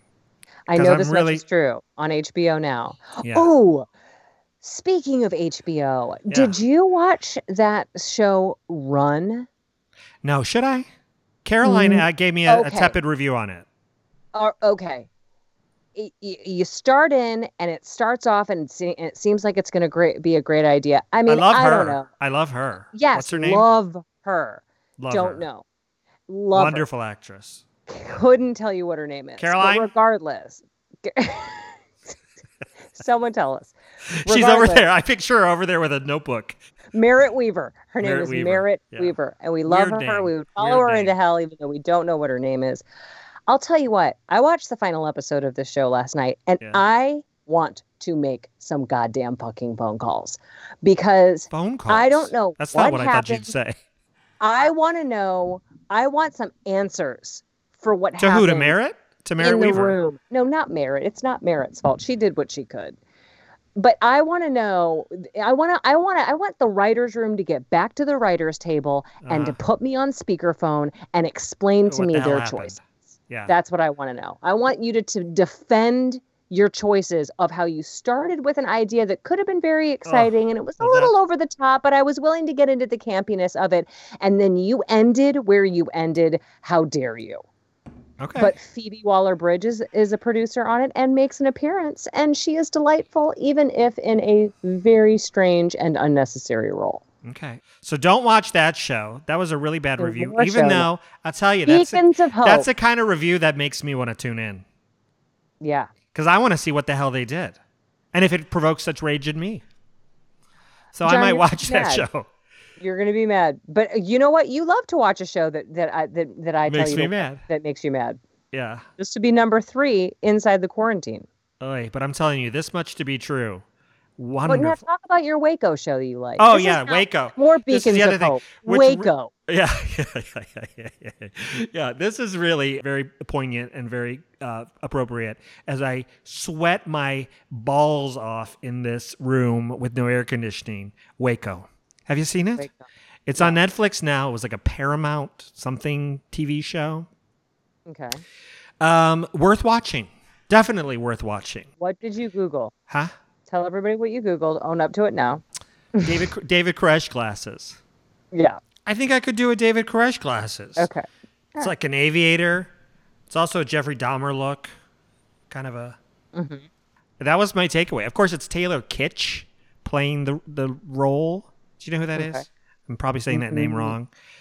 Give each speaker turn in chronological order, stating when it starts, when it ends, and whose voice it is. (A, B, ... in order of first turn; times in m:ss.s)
0:00.7-0:03.9 A
0:00.7-0:01.4 B
0:03.2-0:03.5 B
0:04.6-0:09.5 A
0:06.3-0:06.6 B
0:10.2-0:10.9 B
0:11.4-0:13.7 B
0:11.6-0:13.0 A
0:14.3-0:15.1 A
0:16.0-0:22.1 A
0:21.3-0:23.7 B
0:22.9-0:25.6 A
0:25.0-0:25.4 B
0:26.3-0:26.8 A
0:26.5-0:27.6 B
0:27.9-0:32.1 A
0:29.4-0:29.9 B
0:32.9-0:33.7 A
0:34.1-0:36.6 B
0:34.2-0:34.9 A
0:36.9-0:42.8 A
0:38.0-0:39.1 B
0:39.7-0:41.2 B
0:43.5-0:53.5 A
0:51.5-0:53.8 B
0:54.4-0:58.8 A
0:58.2-1:00.0 B
0:59.4-1:03.0 A
1:03.8-1:12.8 A
1:09.2-1:09.6 B
1:11.9-1:13.5 B
1:13.5-1:27.4 A
1:20.1-1:21.1 B
1:28.2-1:28.6 B
1:28.4-1:37.0 A
1:37.2-1:44.6 B
1:40.0-1:40.9 A
1:41.7-1:42.7 A
1:45.6-1:45.9 A
1:46.1-1:47.6 B
1:48.1-1:49.6 B
1:50.9-1:52.3 B
1:51.0-1:52.1 A
1:52.8-1:58.2 A
1:56.7-1:57.4 B
1:58.5-1:58.9 B
1:59.0-2:01.3 A
2:01.6-2:03.6 B
2:04.2-2:04.8 B
2:04.5-2:09.3 A
2:06.4-2:22.7 B
2:22.6-2:23.6 A
2:23.3-2:27.1 B
2:27.9-2:28.2 A
2:28.8-2:31.7 B
2:31.8-2:32.7 A
2:33.5-2:35.4 A
2:35.9-2:36.2 A
2:36.0-2:37.8 B
2:38.3-2:38.6 A
2:38.9-2:40.9 B
2:40.8-2:41.7 A
2:41.6-2:42.7 B
2:43.3-2:44.7 B
2:45.5-2:46.0 B
2:46.4-2:46.7 A
2:47.2-2:54.1 B
2:52.1-2:52.4 A
2:53.3-2:54.0 A